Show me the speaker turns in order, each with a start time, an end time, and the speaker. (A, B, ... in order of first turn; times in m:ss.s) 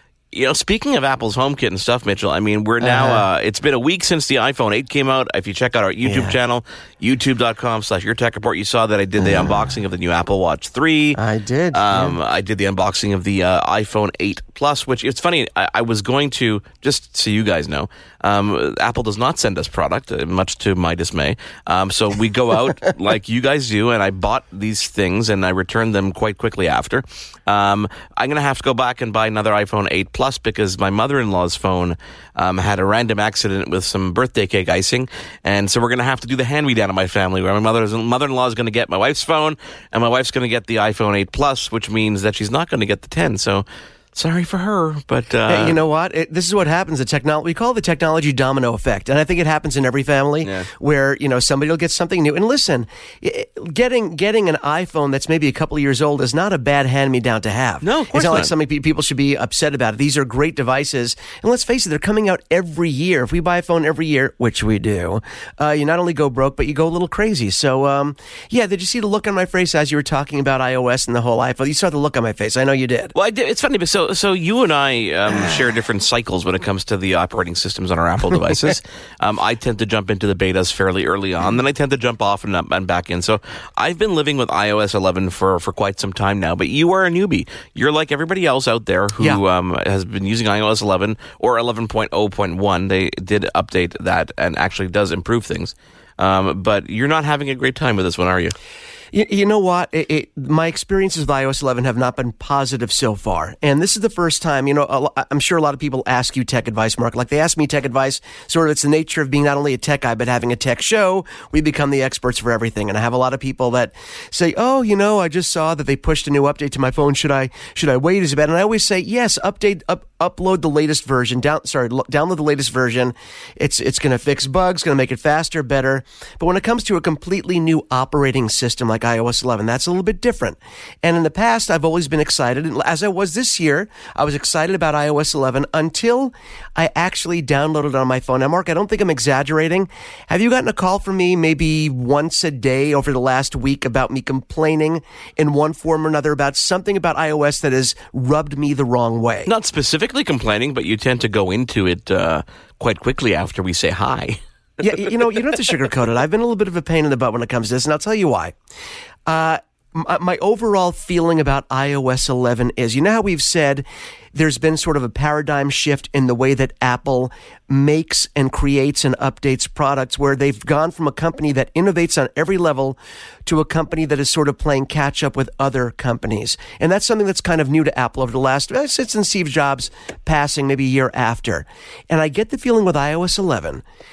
0:00.3-0:11.2 A
0:02.8-0:03.3 B
0:06.0-0:06.4 B
0:09.2-0:09.6 B
0:11.2-0:12.2 B
0:11.7-0:45.8 A
0:45.5-1:13.1 B
0:50.4-0:50.7 A
0:57.8-0:58.5 A
1:13.2-1:38.6 A
1:39.1-2:29.5 B
2:29.5-2:34.4 A
2:34.8-2:38.6 B
2:39.3-3:03.8 B